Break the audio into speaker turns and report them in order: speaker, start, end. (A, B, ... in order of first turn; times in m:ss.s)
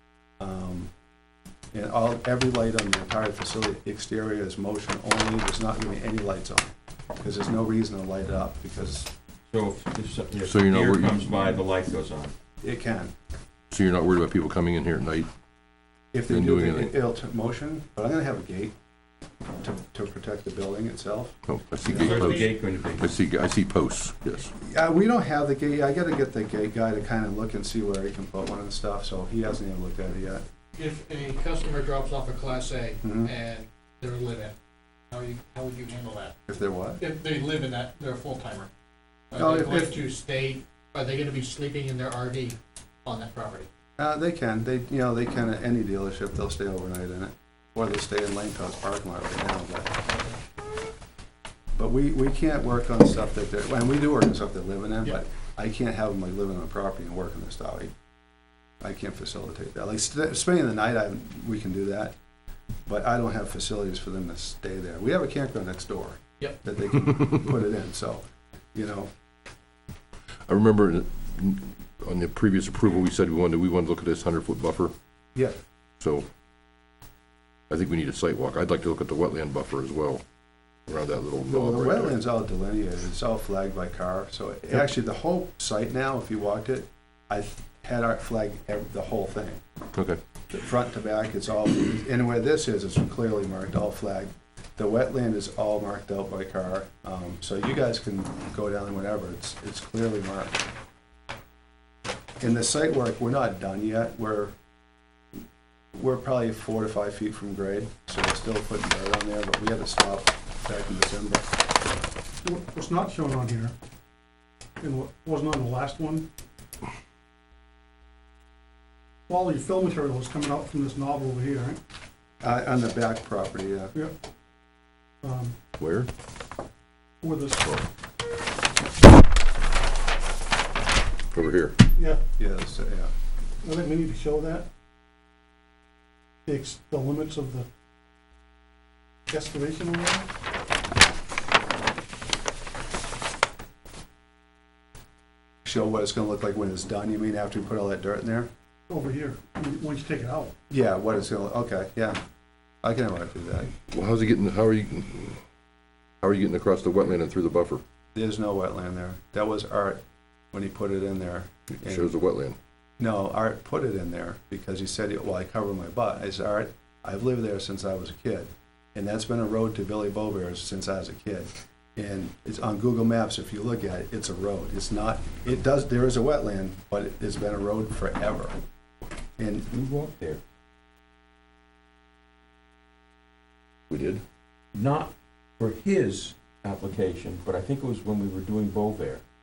0:00.4-0:00.9 A
0:01.7-0:09.1 A
0:09.5-0:12.3 B
0:10.4-0:11.5 C
0:12.6-0:13.1 A
0:13.7-0:15.3 C
0:16.1-0:18.8 A
0:16.3-0:17.0 C
0:19.6-0:21.4 A
0:21.5-0:24.5 C
0:21.9-0:23.1 B
0:21.9-0:22.2 A
0:22.0-0:22.5 D
0:24.6-0:30.4 A
0:30.8-0:34.6 D
0:33.0-0:33.3 A
0:35.1-0:36.4 D
0:36.5-0:37.0 A
0:37.0-0:38.7 D
0:39.3-0:43.7 D
0:39.4-0:40.0 A
0:44.0-0:50.0 A
0:51.8-0:57.9 A
0:58.8-1:02.2 A
1:02.9-1:09.1 A
1:10.5-1:14.9 C
1:16.0-1:16.3 C
1:17.7-1:20.2 C
1:20.9-1:22.2 C
1:21.4-1:29.6 A
1:29.9-1:30.2 C
1:30.5-1:40.6 A
1:42.4-1:44.5 A
1:45.9-1:51.5 A
1:52.4-1:53.7 E
1:54.8-1:56.3 E
1:59.3-2:01.8 E
2:02.4-2:04.0 A
2:05.2-2:05.6 E
2:05.8-2:06.1 C
2:07.2-2:07.7 E
2:11.3-2:11.8 C
2:12.4-2:13.1 A
2:13.6-2:14.7 E
2:16.5-2:17.7 E
2:19.3-2:20.3 E
2:25.6-2:28.5 A
2:28.9-2:30.5 E
2:30.7-2:32.2 A
2:32.8-2:33.7 A
2:33.9-2:35.4 C
2:36.2-2:37.8 C
2:38.2-2:40.0 A
2:40.5-2:42.1 A
2:41.8-2:42.6 C
2:43.0-2:58.6 A
2:59.4-2:59.7 A
2:59.7-3:00.4 B
3:03.9-3:04.2 C
3:04.7-3:09.2 B